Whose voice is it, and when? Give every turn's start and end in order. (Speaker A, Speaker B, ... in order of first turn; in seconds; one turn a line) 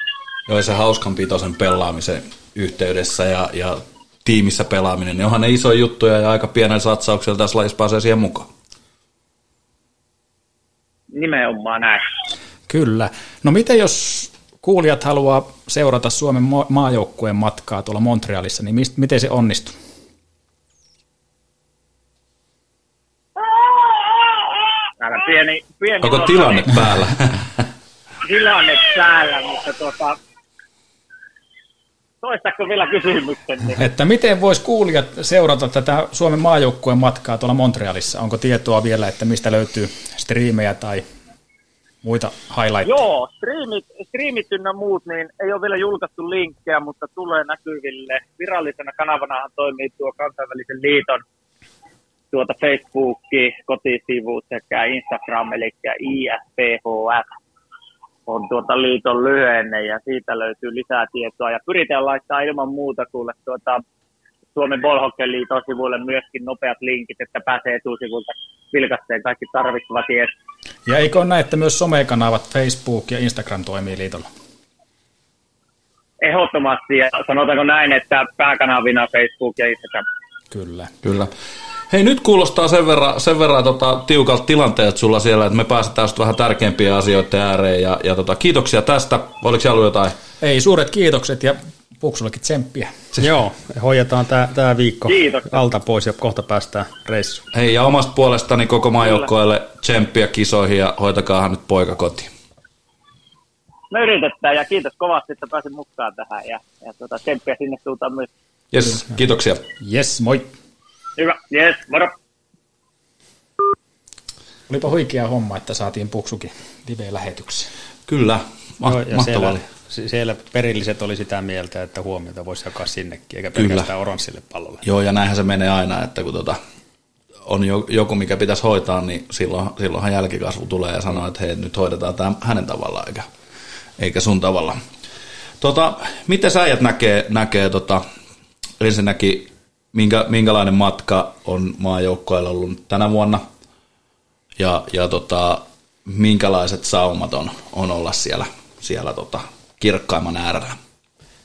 Speaker A: 0.5-8.5
Speaker B: 11.1-12.1
Speaker C: 12.7-19.8
Speaker B: 25.0-26.7
Speaker A: 26.0-27.5
Speaker B: 28.2-30.2
Speaker B: 32.2-33.8
Speaker C: 33.8-41.0
Speaker C: 42.0-42.9
Speaker B: 42.9-51.2
Speaker B: 52.3-57.3
Speaker B: 58.3-63.8
Speaker B: 64.5-70.3
Speaker C: 70.9-74.3
Speaker B: 76.2-80.1
Speaker C: 80.5-80.9
Speaker A: 81.0-81.3
Speaker A: 81.9-90.2
Speaker C: 90.4-92.9
Speaker D: 93.2-97.5
Speaker B: 95.1-95.6
Speaker A: 97.5-102.3
Speaker B: 99.0-99.3
Speaker B: 103.9-108.3
Speaker A: 108.7-109.7
Speaker C: 109.8-110.5
Speaker B: 111.2-112.1
Speaker C: 114.7-117.7
Speaker A: 118.1-119.6
Speaker D: 118.8-124.8
Speaker A: 123.5-123.9
Speaker A: 124.8-126.6
Speaker A: 127.4-133.3
Speaker A: 134.0-134.8
Speaker A: 135.6-138.0
Speaker A: 138.8-143.4
Speaker A: 144.6-150.8